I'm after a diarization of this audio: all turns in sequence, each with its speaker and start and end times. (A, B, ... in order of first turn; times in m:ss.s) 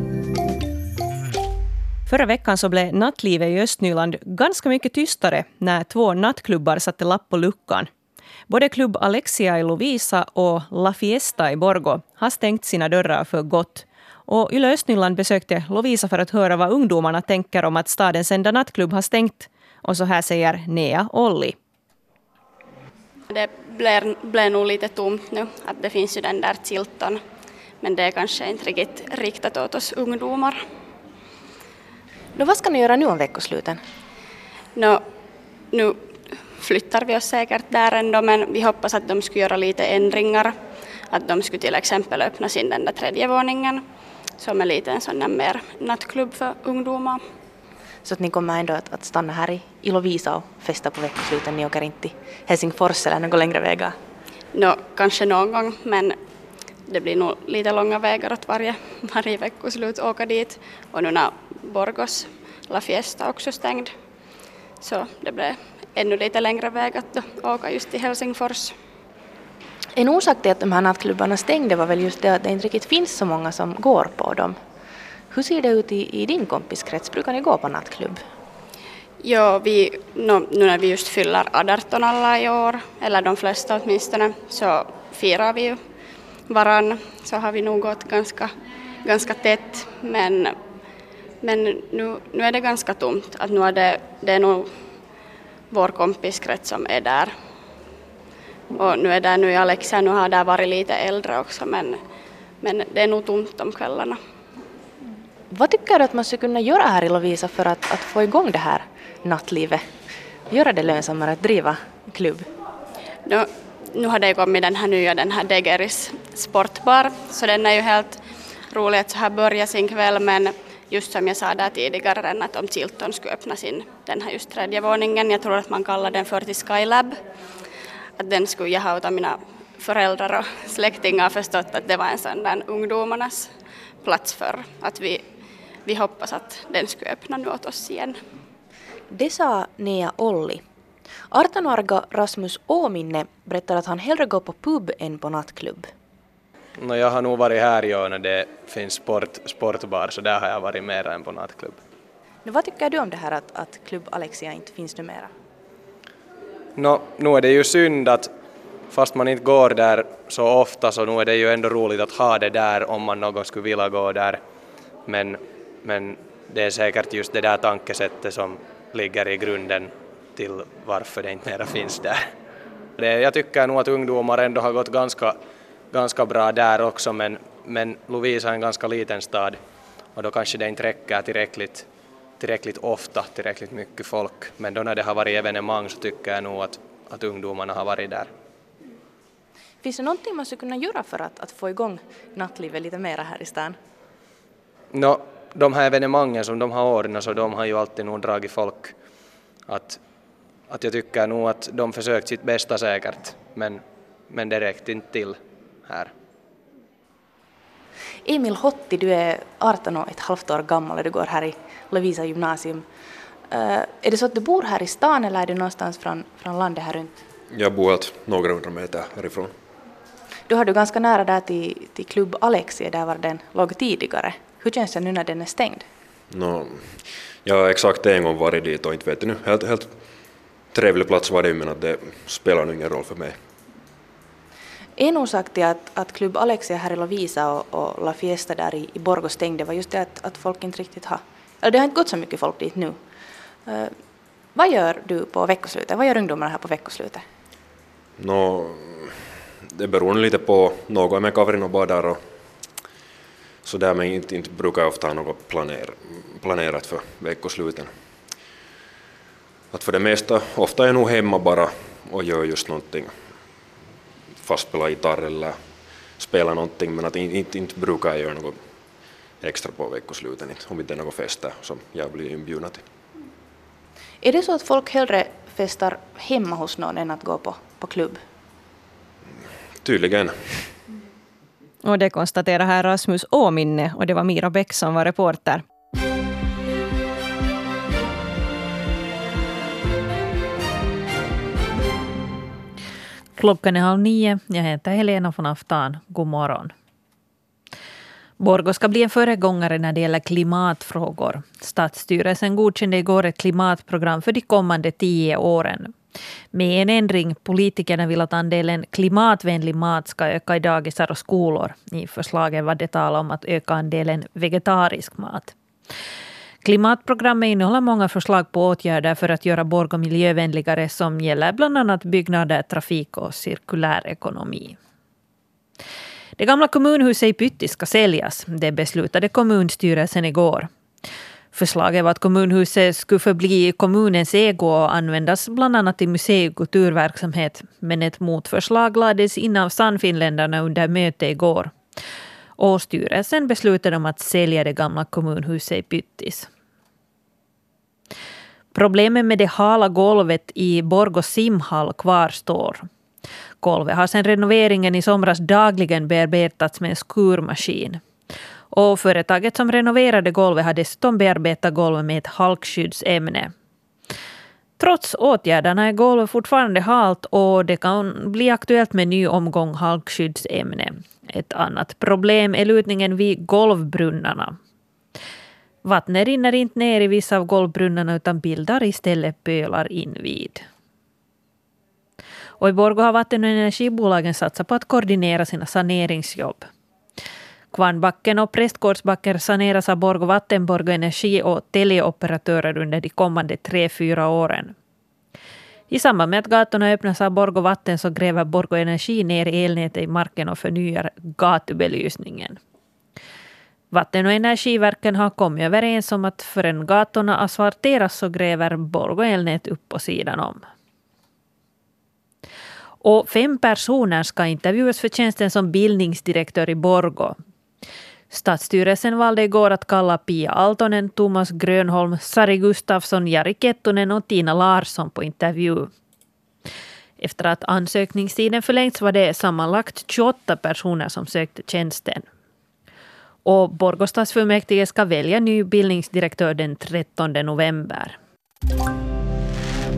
0:02.1-0:07.9 A
0:08.5-0:21.5 A
0:23.3-0:27.2 B
0:27.8-0:30.6 B
0:32.4-0:33.8 C
0:34.7-0:35.0 B
0:35.7-0:40.6 B
0:41.1-0:43.8 B
0:44.4-0:47.2 B
0:48.0-0:54.0 C
0:54.5-0:56.2 B
0:56.8-1:03.9 B
1:04.8-1:08.8 B
1:10.0-1:14.6 C
1:15.3-1:18.2 C
1:19.2-1:25.8 B
1:26.5-1:30.6 B
1:31.4-1:34.7 B
1:35.7-1:37.3 B
1:38.7-1:42.0 B
1:42.6-1:44.2 B
1:45.5-1:49.9 C
1:50.5-1:52.5 C
1:53.2-2:07.2 B
2:08.2-2:18.2 B
2:19.1-2:20.6 C
2:21.3-2:25.9 C
2:26.8-2:31.8 D
2:32.4-2:35.3 C
2:36.8-2:38.3 D
2:38.9-2:44.4 D
2:45.0-2:52.3 D
2:53.0-2:55.4 D
2:55.9-2:59.6 D
3:00.1-3:08.3 D
3:09.8-3:13.8 C
3:14.9-3:18.9 D
3:19.6-3:20.0 D
3:20.7-3:26.1 D
3:28.2-3:32.9 C
3:33.5-3:37.2 C
3:37.5-3:39.5 E
3:40.5-3:45.9 C
3:46.3-3:46.7 E
3:47.4-3:49.9 E
3:50.7-3:53.3 E
3:55.0-4:03.0 C
4:03.6-4:04.0 C
4:04.5-4:07.2 C
4:08.2-4:08.7 E
4:09.8-4:12.2 E
4:13.7-4:17.9 E
4:19.7-4:23.1 E
4:24.4-4:25.5 E
4:26.2-4:28.6 E
4:29.4-4:32.8 E
4:34.2-4:38.2 C
4:39.8-4:40.3 E
4:41.8-4:45.6 A
4:53.4-4:56.7 F
4:58.4-5:05.9 F
5:06.5-5:15.5 F
5:16.6-5:24.8 F
5:26.4-5:30.7 F
5:31.5-5:41.7 F
5:42.6-5:46.5 F
5:48.7-5:52.9 F
5:53.6-5:58.0 F
5:58.7-6:03.5 F
6:04.8-6:14.6 F
6:15.8-6:20.6 F
6:22.6-6:26.7 F
6:27.7-6:34.7 F
6:35.9-6:42.6 F
6:43.9-6:50.6 F
6:53.0-6:57.4 F
6:58.3-7:05.9 F
7:07.2-7:12.2 F
7:13.4-7:18.2 F